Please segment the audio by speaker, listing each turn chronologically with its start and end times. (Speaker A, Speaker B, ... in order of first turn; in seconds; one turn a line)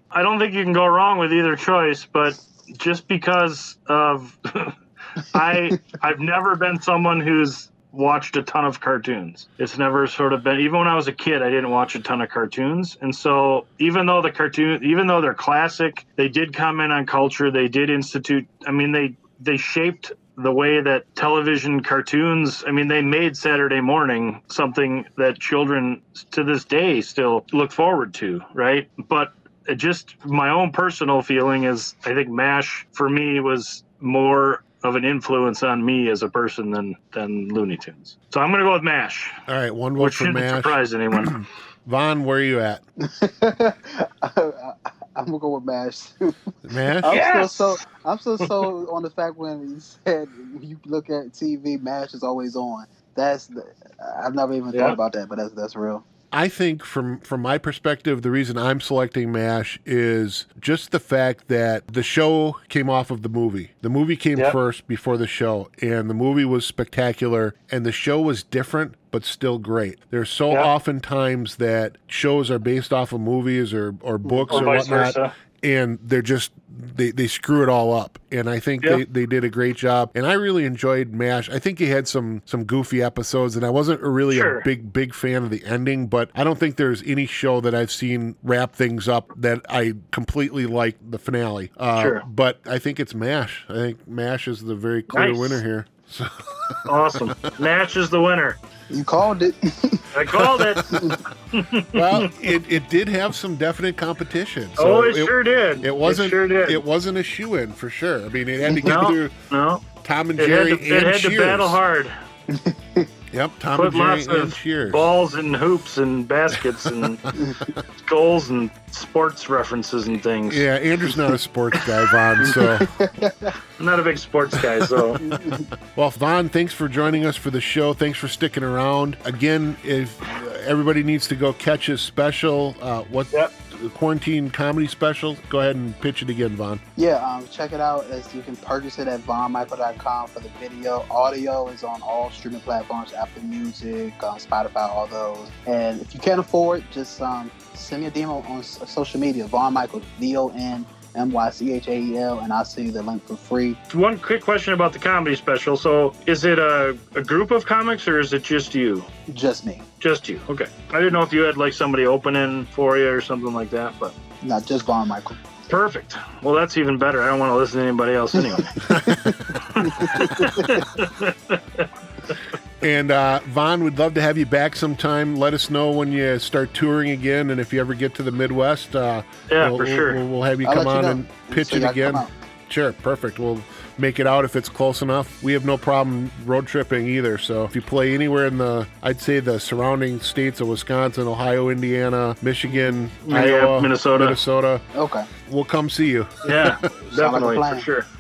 Speaker A: 0.1-39.4
Speaker B: 39.5-42.8
Speaker A: 40.0-41.5
Speaker C: 43.0-46.4
Speaker B: 46.6-47.2
Speaker C: 47.0-56.0
Speaker A: 47.0-47.8
Speaker B: 56.3-97.5
Speaker C: 74.2-74.6
Speaker A: 74.5-75.3
Speaker A: 84.3-84.7
Speaker A: 92.0-92.2
Speaker A: 95.1-95.6
Speaker A: 96.9-98.6
Speaker C: 98.9-100.3
Speaker A: 100.1-102.3
Speaker B: 100.3-101.2
Speaker C: 100.9-101.2
Speaker B: 101.9-109.3
Speaker A: 104.8-106.8
Speaker A: 108.8-112.1
Speaker B: 110.0-111.8
Speaker C: 112.5-113.1
Speaker B: 113.3-115.1
Speaker A: 113.8-117.3
Speaker B: 116.6-117.4
Speaker A: 118.0-120.7
Speaker B: 120.5-123.0
Speaker C: 122.5-123.5
Speaker A: 123.8-125.2
Speaker B: 124.6-136.8
Speaker C: 125.2-125.7
Speaker C: 137.0-153.8
Speaker A: 153.9-159.1
Speaker C: 159.3-159.8
Speaker A: 160.0-164.1
Speaker C: 164.4-165.4
Speaker A: 165.7-168.9
Speaker C: 168.5-170.8
Speaker B: 168.8-169.6
Speaker A: 169.6-171.9
Speaker B: 172.8-194.8
Speaker A: 179.5-180.2
Speaker C: 180.6-182.3
Speaker A: 193.2-194.4
Speaker C: 194.9-195.3
Speaker B: 195.5-196.9
Speaker A: 196.4-198.1
Speaker C: 197.1-197.9